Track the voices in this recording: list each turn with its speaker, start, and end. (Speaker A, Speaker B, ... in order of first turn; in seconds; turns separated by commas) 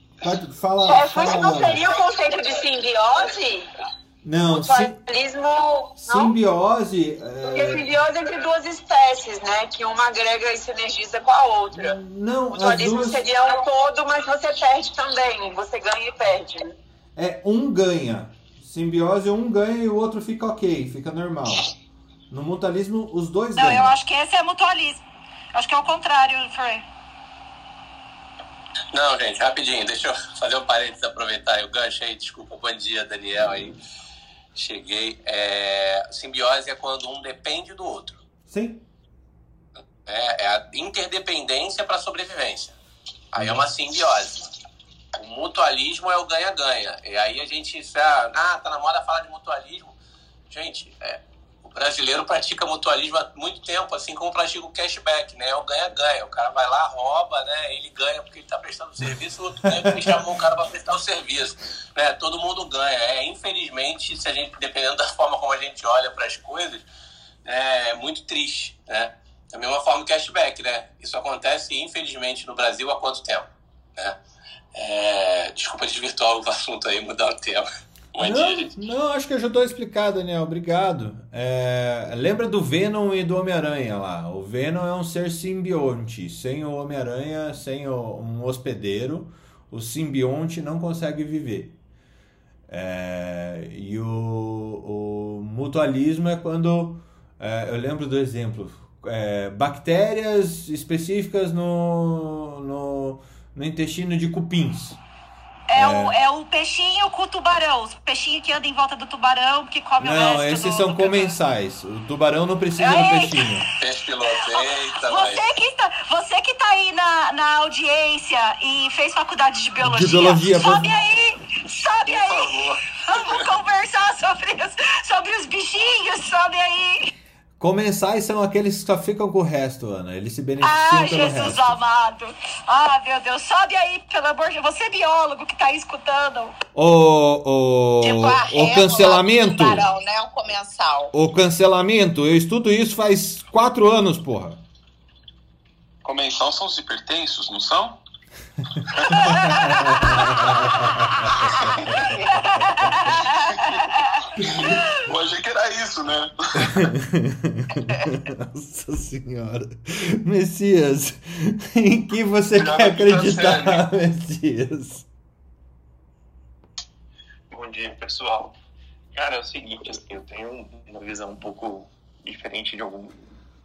Speaker A: 0.2-1.9, Speaker B: 0.8-3.7, Speaker A: 4.2-5.0, Speaker B: 4.5-6.3, Speaker A: 6.0-7.8, Speaker B: 7.4-12.0, Speaker A: 11.7-13.3, Speaker B: 12.5-16.8, Speaker A: 17.1-21.7, Speaker A: 22.3-24.0, Speaker C: 23.6-25.0, Speaker C: 25.5-26.8, Speaker D: 28.9-33.8, Speaker D: 34.5-38.2, Speaker A: 38.5-38.8, Speaker D: 40.0-42.8, Speaker D: 43.3-44.4, Speaker A: 43.4-43.7, Speaker D: 45.1-50.0, Speaker D: 50.5-66.8, Speaker A: 59.7-60.2, Speaker D: 67.4-74.2, Speaker D: 74.7-78.7, Speaker A: 78.2-91.8, Speaker A: 92.7-105.0, Speaker C: 105.7-111.3, Speaker A: 105.7-106.2, Speaker A: 110.0-113.7, Speaker C: 112.8-113.5, Speaker D: 113.8-115.5, Speaker C: 114.4-127.1, Speaker A: 119.8-121.0, Speaker D: 122.1-122.8, Speaker A: 127.6-131.8, Speaker C: 130.6-136.5, Speaker A: 136.7-139.9, Speaker E: 138.0-141.1, Speaker A: 141.1-144.6, Speaker F: 146.0-148.0, Speaker F: 148.9-149.7, Speaker A: 149.2-152.1, Speaker C: 149.3-150.1, Speaker F: 151.6-152.2, Speaker C: 152.4-153.1, Speaker F: 153.0-156.8, Speaker A: 156.6-165.1, Speaker F: 162.5-163.8, Speaker G: 167.5-168.6, Speaker G: 169.1-173.2